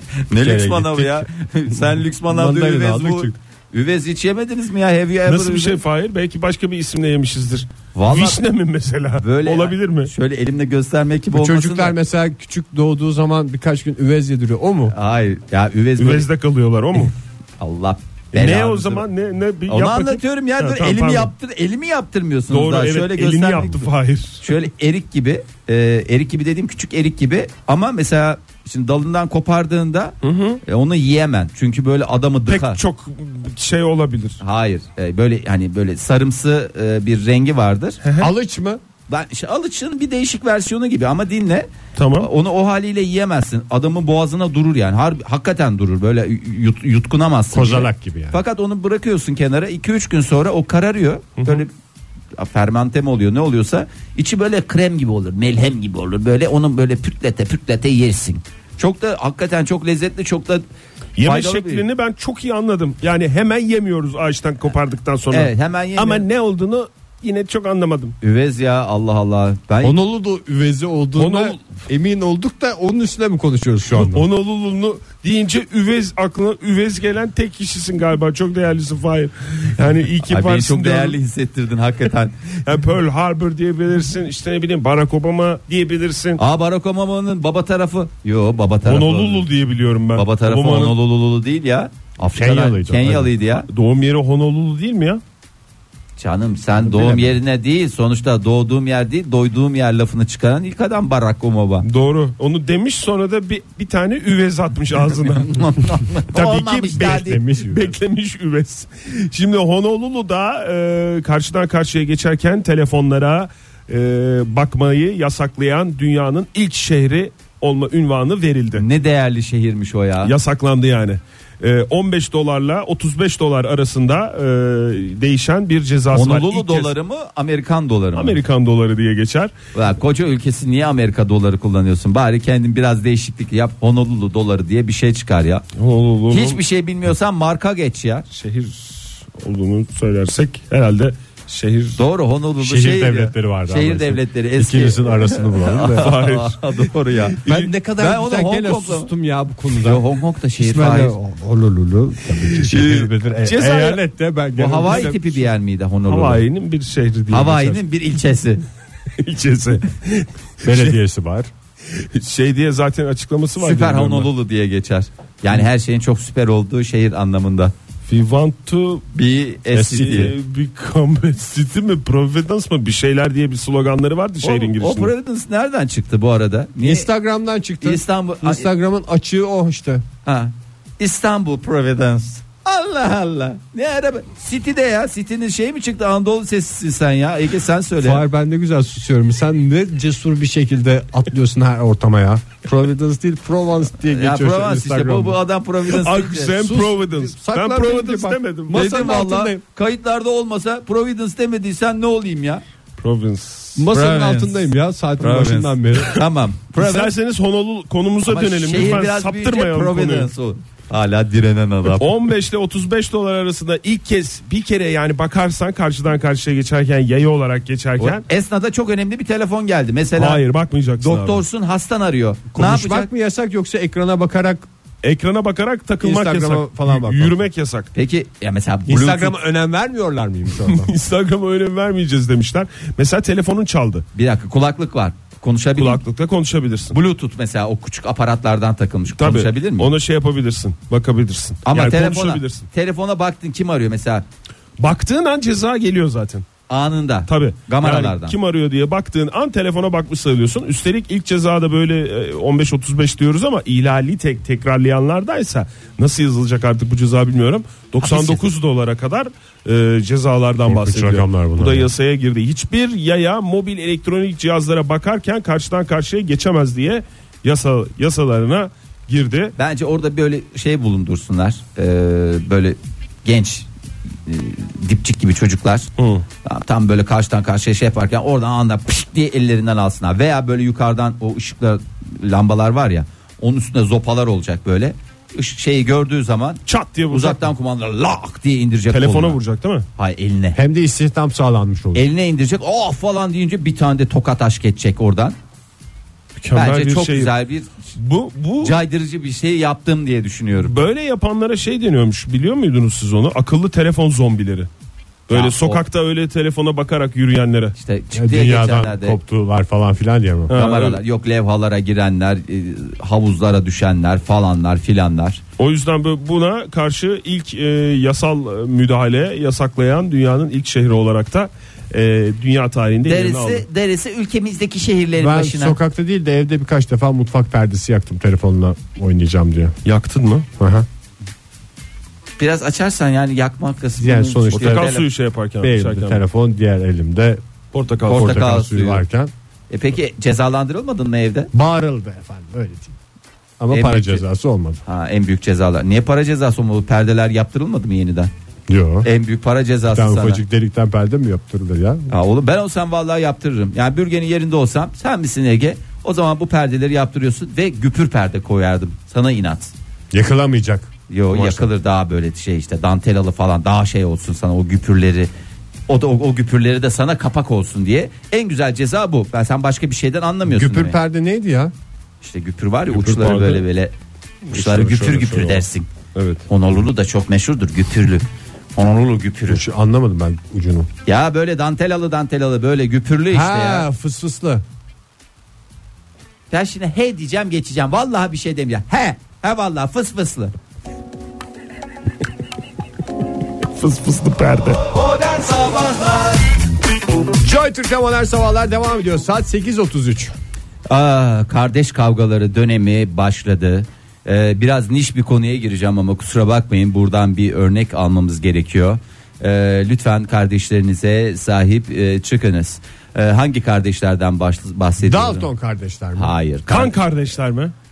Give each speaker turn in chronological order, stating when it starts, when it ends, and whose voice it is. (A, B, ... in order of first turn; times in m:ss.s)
0:00.2-0:05.8 A
0:00.3-0:01.3 B
0:02.3-0:03.4 B
0:05.2-0:10.1 C
0:07.9-0:08.4 A
0:09.2-0:11.9 A
0:11.3-0:14.9 B
0:14.9-0:16.3 A
0:16.0-0:17.1 C
0:17.6-0:19.0 A
0:18.3-0:21.3 C
0:19.7-0:23.9 A
0:22.5-0:24.4 C
0:24.4-0:32.8 A
0:30.2-0:30.6 C
0:32.5-0:34.4 C
0:34.4-0:38.0 A
0:38.0-0:38.3 C
0:38.2-0:38.8 B
0:39.1-0:51.7 A
0:42.0-0:42.3 C
0:47.5-0:48.4 B
0:51.4-0:51.6 C
0:52.4-1:00.6 A
1:01.2-1:08.1 C
1:01.2-1:01.8 A
1:05.3-1:06.2 A
1:08.2-1:10.0 A
1:09.8-1:14.2 B
1:11.2-1:11.6 C
1:13.9-1:21.2 C
1:20.2-1:22.3 A
1:22.6-1:26.4 C
1:26.4-1:29.4 A
1:28.8-1:31.0 C
1:30.1-1:33.7 A
1:32.2-1:33.3 B
1:33.7-1:35.2 C
1:36.2-1:41.8 A
1:36.9-1:37.3 B
1:41.8-1:45.7 C
1:45.4-1:47.4 A
1:46.3-1:58.8 C
1:47.0-1:48.0 B
1:58.7-2:00.3 A
2:00.2-2:06.9 C
2:06.1-2:08.4 A
2:08.1-2:09.5 C
2:09.7-2:15.6 A
2:15.8-2:16.6 C
2:16.3-2:18.2 A
2:18.3-2:22.0 C
2:22.0-2:27.4 A
2:22.6-2:26.1 B
2:25.9-2:26.7 C
2:27.3-2:27.7 C
2:27.4-2:30.0 B
2:28.0-2:29.1 A
2:29.7-2:31.2 A
2:30.6-2:35.5 B
2:32.7-2:33.1 A
2:33.4-2:33.8 C
2:33.6-2:34.0 A
2:34.6-2:36.4 A
2:36.1-2:37.8 C
2:37.3-2:38.6 A
2:39.2-2:40.9 C
2:40.6-2:41.5 B
2:41.9-2:44.3 C
2:43.6-2:47.7 A
2:48.1-2:49.0 C
2:49.1-2:50.3 A
2:49.7-2:50.3 B
2:49.8-2:55.1 C
2:54.4-2:57.1 A
2:56.8-3:00.0 B
2:57.8-2:58.7 A
3:00.2-3:08.2 A
3:08.0-3:15.4 B
3:14.1-3:16.6 A
3:15.9-3:19.1 C
3:16.6-3:19.6 B
3:18.7-3:22.6 A
3:23.0-3:23.8 C
3:23.8-3:26.2 B
3:23.9-3:24.7 A
3:25.2-3:27.1 A
3:26.8-3:30.3 C
3:28.2-3:32.1 A
3:32.0-3:38.2 C
3:38.0-3:40.4 A
3:40.2-3:41.4 C
3:41.0-3:43.1 A
3:42.5-3:44.6 B
3:45.0-3:47.9 C
3:46.0-3:47.4 B
3:47.9-3:49.3 A
3:48.8-3:50.9 B
3:50.6-3:54.0 C
3:54.1-3:56.0 A
3:55.8-3:57.0 C
3:56.9-3:59.9 A
3:59.2-4:02.7 C
4:01.6-4:04.2 A
4:04.8-4:06.4 C
4:06.7-4:08.4 A
4:07.3-4:29.5 C
4:18.0-4:18.5 A
4:20.7-4:21.9 B
4:29.6-4:33.7 A
4:34.2-4:35.9 A
4:36.0-4:36.2 C
4:36.4-4:49.4 A
4:46.7-4:47.4 C
4:48.9-4:49.9 C
4:50.0-4:50.6 A
4:50.6-4:52.0 B
4:51.9-4:55.4 A
4:56.4-4:57.3 C
4:56.5-4:57.7 A
4:58.0-4:58.8 C
4:58.6-5:00.7 A
5:00.6-5:04.7 C
5:05.3-5:07.7 C
5:05.3-5:05.8 A
5:07.7-5:09.2 A
5:08.1-5:10.6 B
5:10.5-5:11.0 C
5:10.5-5:15.4 A
5:15.6-5:23.6 C
5:23.0-5:25.8 A
5:25.2-5:29.7 B
5:29.8-5:30.4 C
5:30.6-5:30.9 B
5:32.4-5:35.0 A
5:34.0-5:34.9 B
5:34.5-5:36.2 C
5:35.6-5:37.4 B
5:37.7-5:38.4 C
5:38.0-5:39.0 A
5:38.1-5:39.3 B
5:39.7-5:41.5 A
5:41.5-5:43.0 B
5:43.6-5:44.8 B
5:43.7-5:44.2 A
5:44.9-5:48.3 A
5:48.7-5:49.1 B
5:49.0-5:50.4 A
5:49.9-5:52.1 B
5:52.1-5:59.7 A
6:00.1-6:00.9 B
6:01.1-6:05.3 A
6:01.3-6:01.6 C
6:05.9-6:11.0 A
6:10.4-6:11.7 B
6:12.2-6:13.9 A
6:12.9-6:13.6 C
6:14.5-6:16.4 C
6:14.5-6:15.9 A
6:16.5-6:18.2 A
6:18.8-6:19.6 A
6:19.5-6:20.9 B
6:21.0-6:23.9 A
6:23.3-6:24.6 B
6:26.5-6:30.5 A
6:33.7-6:34.8 C
6:34.9-6:36.4 A
6:37.3-6:40.3 B
6:40.9-6:55.5 A
6:55.0-6:56.3 B
6:56.2-6:56.9 A
6:56.7-6:57.7 C